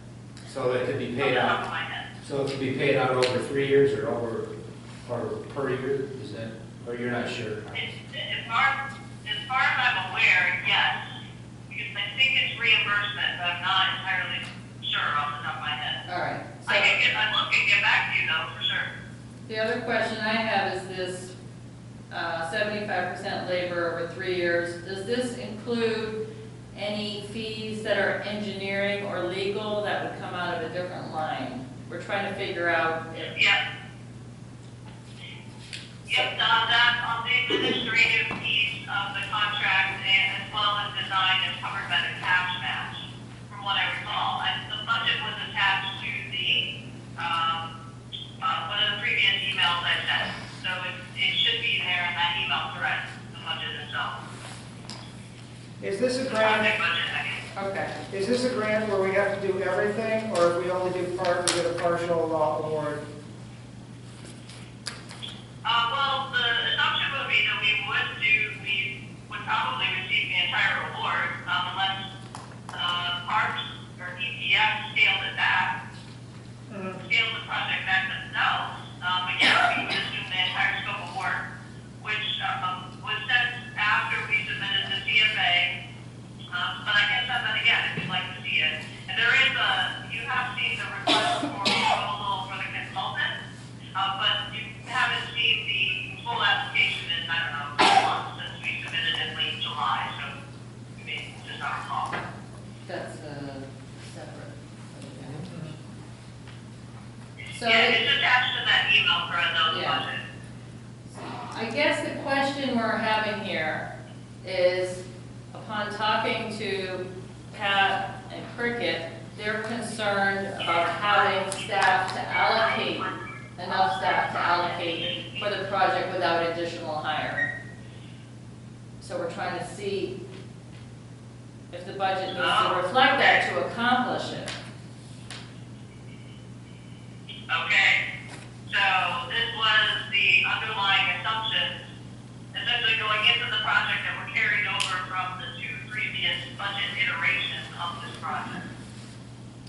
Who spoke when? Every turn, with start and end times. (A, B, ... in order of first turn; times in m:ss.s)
0:00.4-0:01.6 A
0:01.2-0:02.1 B
0:02.2-0:07.9 A
0:07.7-0:11.0 B
0:11.7-0:16.0 B
0:16.1-0:17.0 C
0:16.6-0:18.9 B
0:19.5-0:21.3 C
0:22.1-0:26.2 C
0:26.7-0:33.3 C
0:33.3-0:33.6 B
0:36.1-0:47.7 B
0:48.4-0:54.2 B
0:55.8-0:56.8 D
0:56.3-0:57.4 B
0:57.6-0:58.0 C
0:58.1-1:03.0 D
1:05.6-1:12.0 B
1:12.7-1:15.7 B
1:16.7-1:17.0 D
1:17.0-1:21.4 B
1:22.0-1:25.7 B
1:26.5-1:33.4 B
1:34.0-1:40.4 B
1:41.0-1:42.2 B
1:42.9-1:45.6 C
1:47.5-1:48.0 C
1:47.6-1:50.2 B
1:49.7-1:50.0 C
1:51.1-1:53.9 C
1:54.4-2:07.5 C
2:00.6-2:01.6 B
2:02.3-2:03.1 B
2:03.8-2:05.4 B
2:09.0-2:10.2 C
2:11.7-2:14.5 C
2:12.3-2:13.4 B
2:17.5-2:18.0 B
2:18.7-2:21.8 B
2:22.5-2:28.6 B